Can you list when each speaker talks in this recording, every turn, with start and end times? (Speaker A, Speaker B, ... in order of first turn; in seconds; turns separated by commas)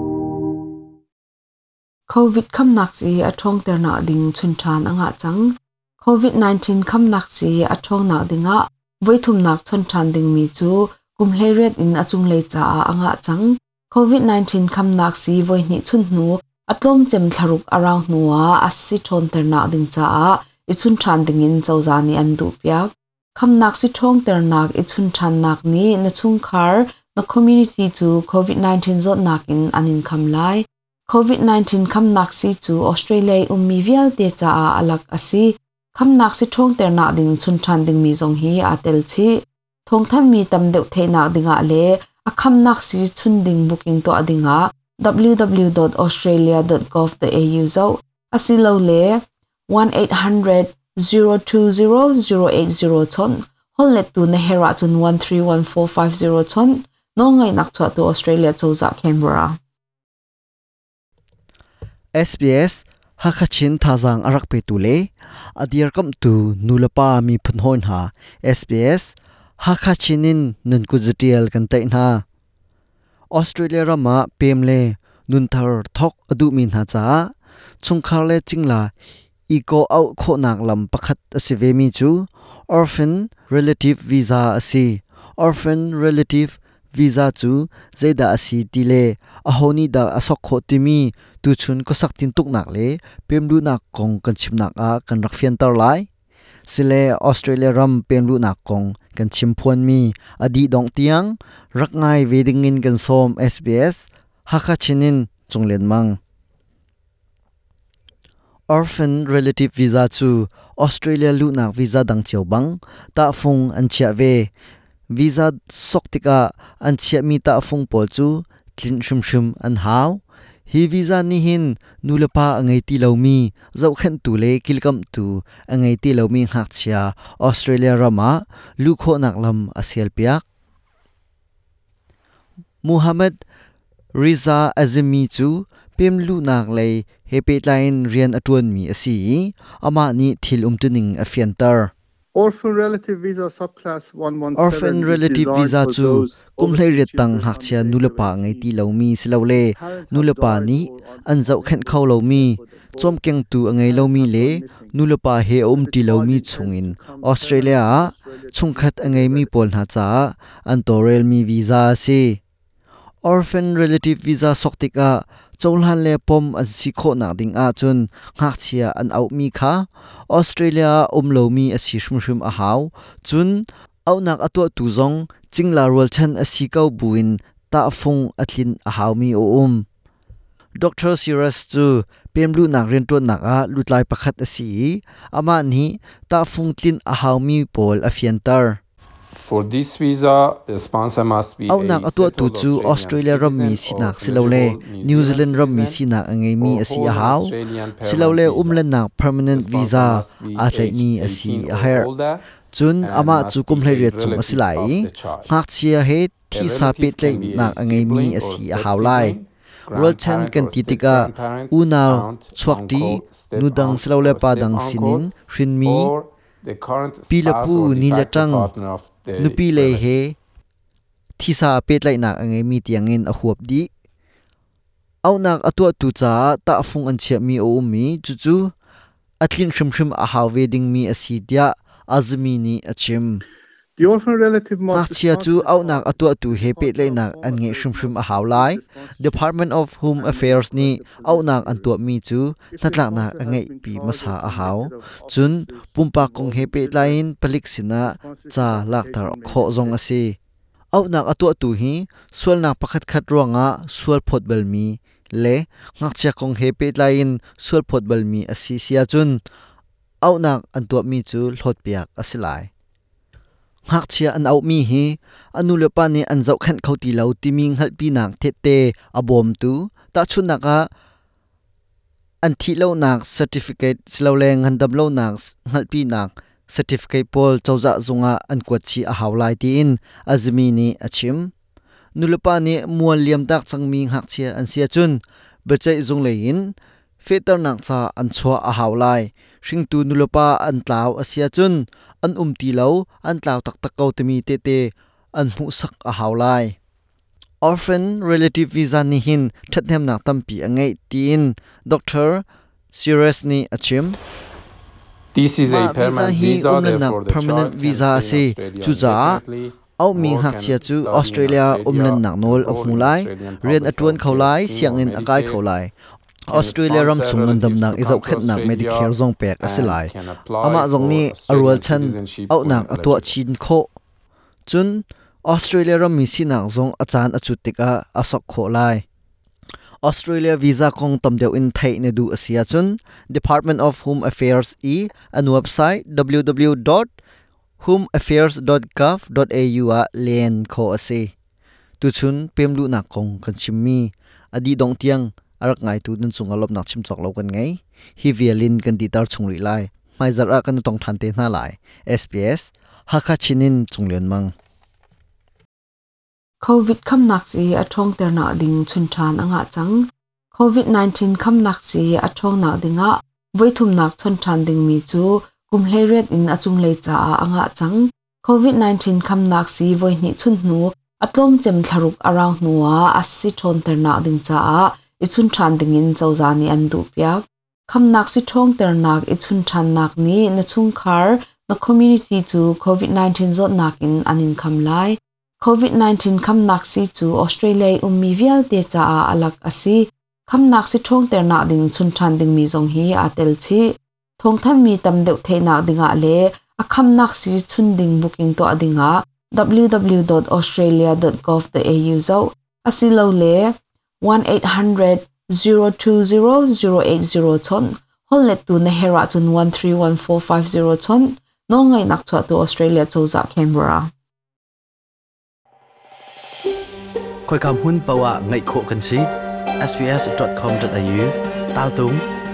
Speaker A: 2.1-59.6, Speaker B: 62.1-72.2, Speaker B: 73.3-78.9, Speaker B: 79.5-96.1, Speaker B: 96.7-106.2, Speaker B: 108.7-114.5, Speaker B: 115.1-130.4, Speaker B: 132.8-133.4, Speaker B: 134.1-141.9, Speaker C: 142.3-148.7, Speaker B: 144.6-162.4, Speaker C: 149.7-153.2, Speaker C: 153.8-155.0, Speaker C: 155.7-159.5, Speaker B: 163.2-179.8, Speaker B: 180.8-188.8, Speaker D: 189.4-196.0, Speaker B: 191.7-202.1, Speaker D: 196.6-198.8, Speaker D: 199.5-202.5, Speaker B: 202.7-209.4, Speaker D: 203.0-205.6, Speaker D: 206.5-215.3, Speaker B: 209.9-216.1, Speaker D: 215.8-220.1, Speaker B: 217.3-218.7, Speaker B: 219.4-220.4, Speaker B: 221.4-223.9, Speaker B: 225.2-228.7, Speaker B: 229.4-233.4, Speaker C: 234.0-241.9, Speaker B: 234.9-250.4, Speaker C: 242.7-247.2, Speaker C: 248.0-250.0, Speaker B: 250.9-259.4, Speaker B: 260.2-262.7, Speaker B: 263.9-270.9, Speaker B: 272.4-281.5, Speaker B: 282.1-296.8, Speaker B: 297.6-304.2, Speaker D: 305.3-315.6, Speaker B: 305.6-309.4, Speaker B: 310.0-315.9, Speaker B: 316.5-320.1, Speaker D: 316.5-323.3, Speaker B: 320.6-323.9, Speaker B: 324.7-329.0, Speaker B: 330.0-337.1, Speaker B: 337.8-341.3, Speaker B: 342.0-354.5, Speaker A: 356.6-414.1, Speaker E: 417.4-422.2